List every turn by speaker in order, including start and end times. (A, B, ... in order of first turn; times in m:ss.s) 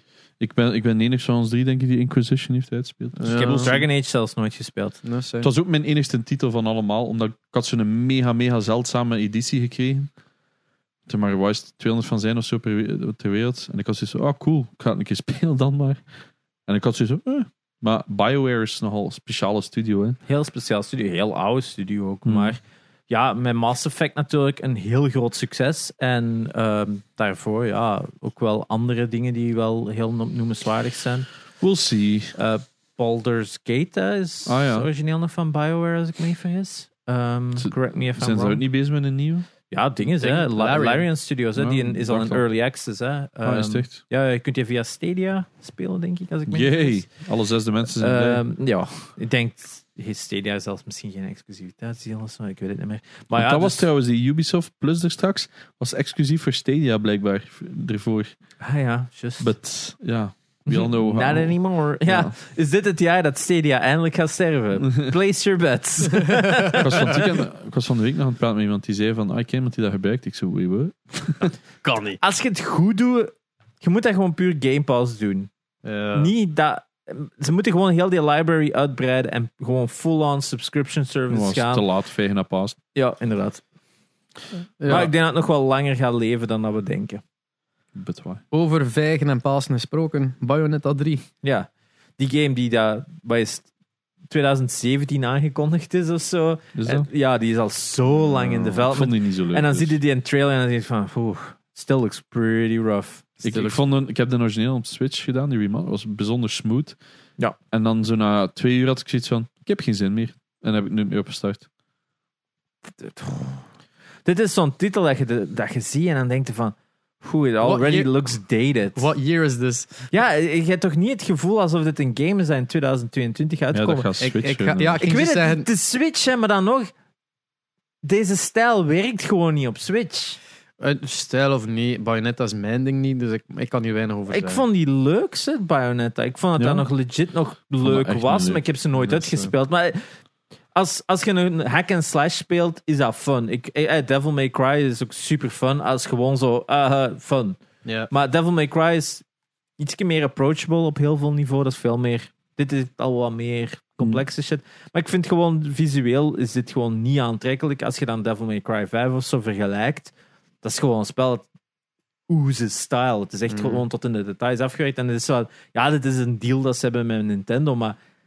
0:00.4-0:03.8 A
0:03.2-0:03.7 B
0:03.3-0:05.0 C
0:05.0-0:05.5 B
0:05.4-0:10.1 A
0:11.1-0:16.0 A
0:16.7-0:20.2 A
0:20.3-0:22.6 C
0:22.2-0:22.6 A
0:23.1-0:31.3 C
0:31.6-0:32.3 A
0:32.4-0:38.6 C
0:34.4-0:34.9 A
0:37.6-0:39.4 A
0:39.7-0:47.0 C
0:40.2-0:41.0 B
0:41.6-0:42.4 A
0:43.4-0:44.0 A
0:46.5-0:48.4 A
0:47.9-0:53.8 C
0:53.3-0:58.3 A
0:58.6-0:59.5 C
0:59.4-1:02.3 A
1:00.7-1:07.3 C
1:06.2-1:06.8 B
1:06.8-1:11.5 A
1:11.8-1:12.2 B
1:12.2-1:15.5 C
1:15.8-1:16.3 B
1:16.1-1:21.8 C
1:21.3-1:22.8 A
1:22.9-1:23.6 C
1:24.8-1:25.1 B
1:24.8-1:27.2 C
1:27.9-1:28.4 A
1:28.5-1:31.2 B
1:31.4-1:33.6 C
1:34.3-1:43.4 C
1:36.7-1:37.1 A
1:38.3-1:40.0 A
1:43.4-1:43.8 B
1:43.4-1:47.0 A
1:47.7-1:51.6 A
1:53.0-1:53.6 C
1:54.2-1:59.1 C
1:57.6-1:58.1 B
1:58.9-2:00.0 B
2:00.1-2:04.1 C
2:03.7-2:05.0 A
2:04.2-2:05.7 B
2:05.0-2:06.9 C
2:08.0-2:10.4 C
2:10.8-2:14.6 B
2:14.3-2:20.0 C
2:16.6-2:16.8 A
2:17.8-2:18.6 A
2:20.7-2:29.2 C
2:29.8-2:40.1 C
2:40.6-2:41.4 C
2:42.3-2:48.0 C
2:43.5-2:43.8 B